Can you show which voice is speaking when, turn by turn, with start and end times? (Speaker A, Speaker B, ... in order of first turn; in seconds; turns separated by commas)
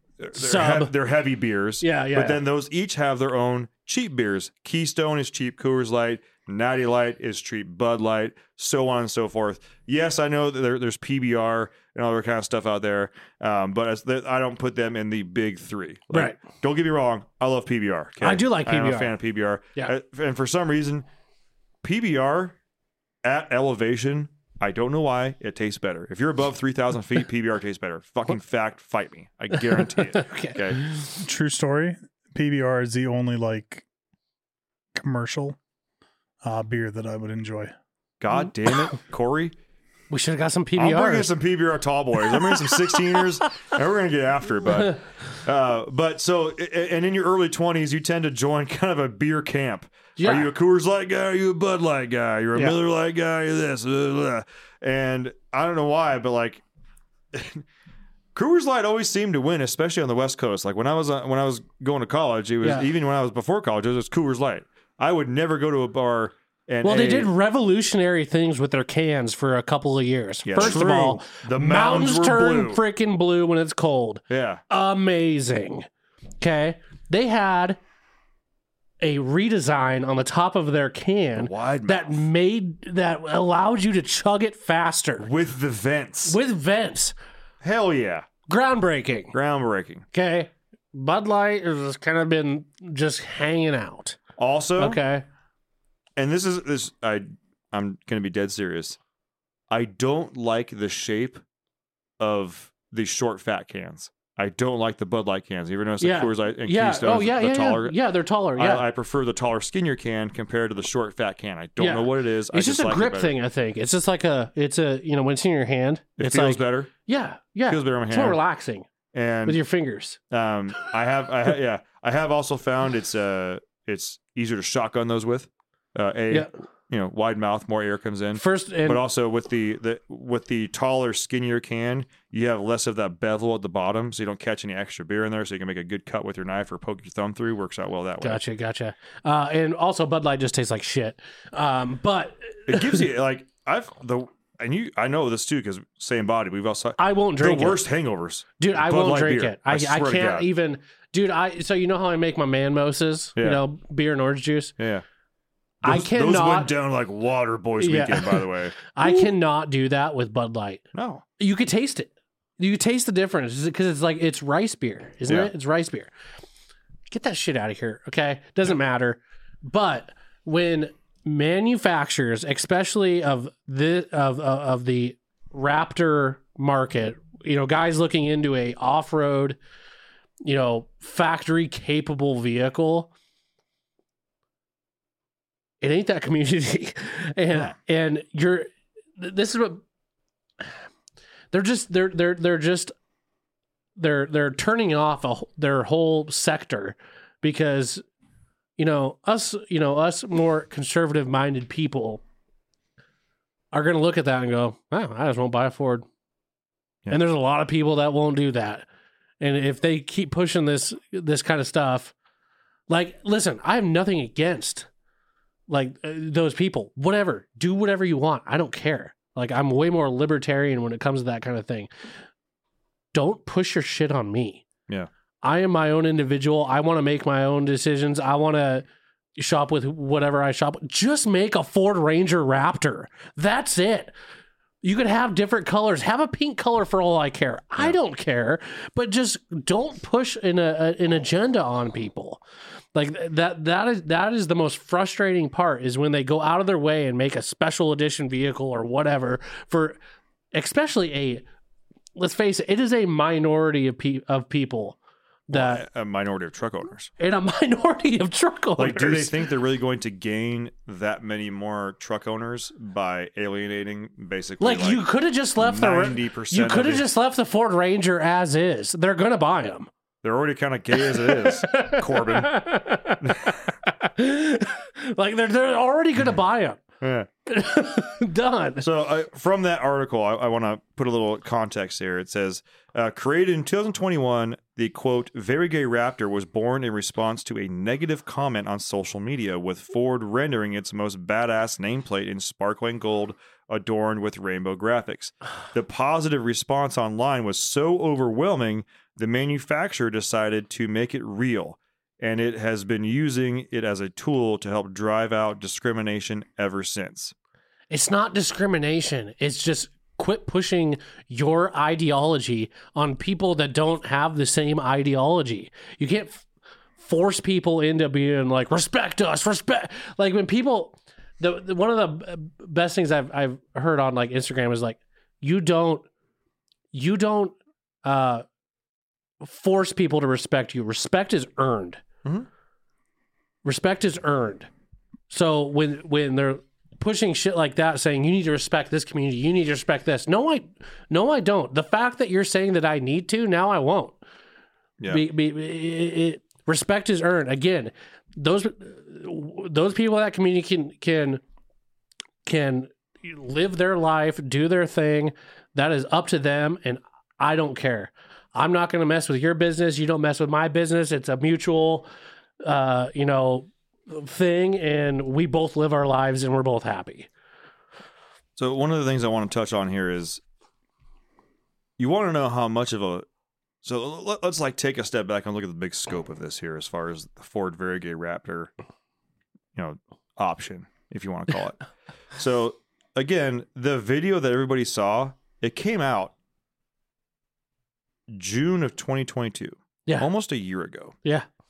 Speaker A: 0.2-21.1, Speaker B: 0.4-0.9, Speaker B: 1.8-2.4, Speaker B: 16.1-16.4, Speaker B: 18.2-19.1, Speaker A: 21.8-22.6, Speaker A: 23.2-30.8, Speaker B: 29.8-31.2, Speaker C: 31.2-33.9, Speaker C: 35.0-35.6, Speaker C: 36.4-37.7, Speaker A: 38.2-39.5, Speaker B: 40.1-41.3, Speaker A: 40.8-56.6, Speaker B: 42.3-42.6, Speaker B: 44.7-45.0, Speaker B: 50.2-50.5, Speaker A: 57.3-57.6, Speaker A: 58.4-67.3, Speaker B: 62.6-62.9, Speaker B: 66.8-75.9, Speaker A: 70.5-72.8, Speaker A: 74.3-74.6, Speaker B: 76.4-77.8, Speaker B: 79.0-85.3, Speaker A: 81.4-82.3, Speaker A: 85.2-86.4, Speaker B: 86.3-87.1, Speaker A: 87.6-88.3, Speaker B: 88.5-89.3, Speaker A: 89.3-90.0, Speaker B: 90.1-94.2, Speaker A: 94.4-95.0, Speaker B: 94.8-95.2, Speaker A: 96.2-99.0, Speaker A: 99.7-101.4, Speaker A: 102.2-108.0, Speaker B: 106.0-108.8, Speaker A: 108.6-113.3, Speaker B: 111.8-118.9, Speaker A: 116.2-116.9, Speaker A: 117.7-118.4, Speaker A: 119.1-119.6, Speaker B: 119.5-120.2, Speaker A: 120.3-138.4, Speaker B: 128.3-129.0, Speaker B: 138.2-143.0, Speaker A: 142.7-150.5, Speaker B: 147.0-147.8, Speaker B: 148.6-154.7, Speaker A: 153.4-153.6, Speaker A: 154.8-155.0, Speaker B: 155.8-156.7, Speaker A: 155.8-159.3, Speaker B: 157.8-160.8, Speaker A: 160.9-161.2, Speaker B: 161.4-166.1, Speaker B: 167.1-179.6, Speaker B: 180.4-183.1, Speaker B: 185.8-189.8, Speaker B: 191.5-192.9, Speaker B: 194.0-198.0, Speaker B: 198.8-202.2, Speaker B: 203.7-206.1, Speaker B: 207.1-208.9, Speaker B: 209.4-212.1, Speaker B: 212.9-214.9, Speaker B: 215.7-221.9, Speaker B: 223.1-224.7, Speaker B: 225.4-228.8, Speaker B: 229.4-234.1, Speaker B: 234.8-242.4, Speaker B: 242.9-250.0, Speaker B: 250.5-251.4, Speaker B: 252.2-255.0, Speaker B: 255.5-255.8, Speaker A: 255.5-257.1, Speaker B: 257.2-259.4, Speaker A: 258.8-265.1, Speaker B: 264.6-269.9, Speaker A: 265.6-267.1, Speaker A: 270.2-272.6, Speaker B: 271.0-276.8, Speaker A: 273.2-273.5, Speaker A: 277.0-277.3, Speaker B: 277.5-278.9, Speaker A: 278.8-307.3, Speaker B: 307.9-316.5, Speaker B: 317.0-326.1, Speaker B: 326.9-328.4, Speaker B: 329.4-332.0, Speaker B: 333.6-334.7, Speaker B: 335.3-344.2, Speaker B: 345.1-351.4, Speaker B: 352.4-362.1, Speaker B: 362.6-367.3, Speaker A: 368.6-370.4, Speaker A: 372.0-373.2, Speaker A: 373.8-378.7, Speaker A: 379.8-381.8, Speaker A: 382.4-386.3, Speaker A: 388.3-391.2